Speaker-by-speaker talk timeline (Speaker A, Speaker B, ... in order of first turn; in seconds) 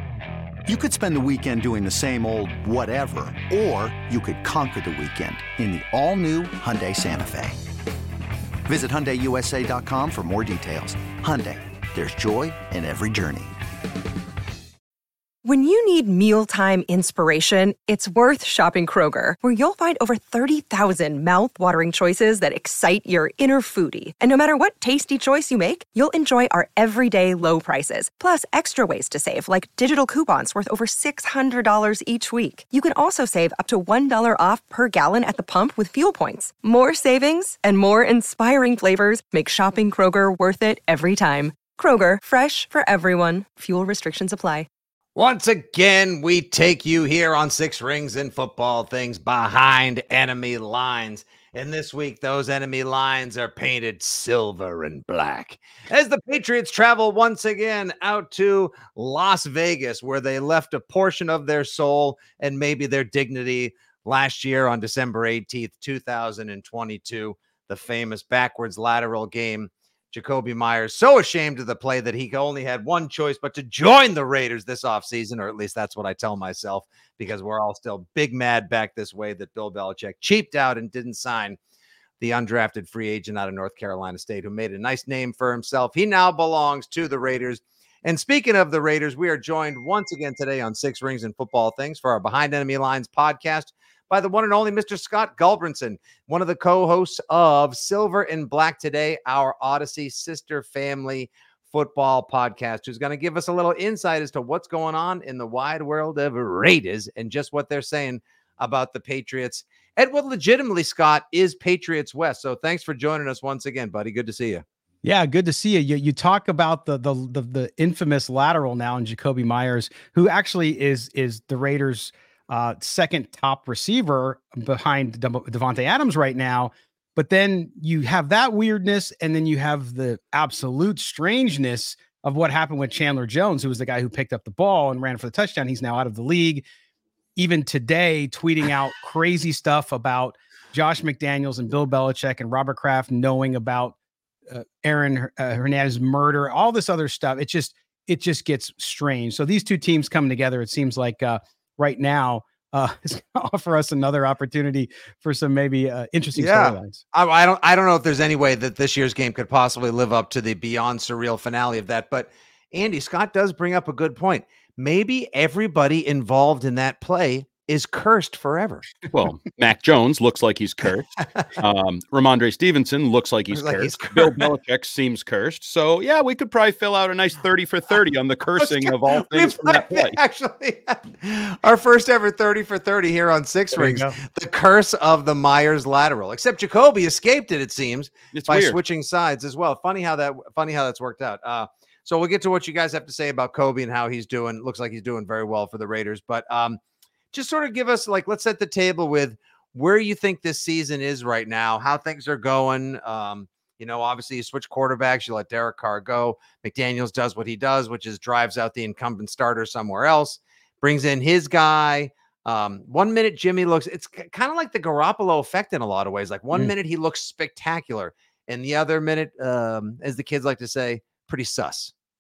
Speaker A: 0.7-7.6, 8.6-13.5
Speaker B: 15.4-44.7
Speaker C: 45.1-81.6, 82.2-114.6, 156.3-168.9, 173.5-174.4, 178.6-196.8, 197.3-221.9
Speaker D: 115.0-136.6, 137.3-143.9, 144.5-157.0, 183.8-184.2
Speaker E: 169.1-180.2, 188.3-188.8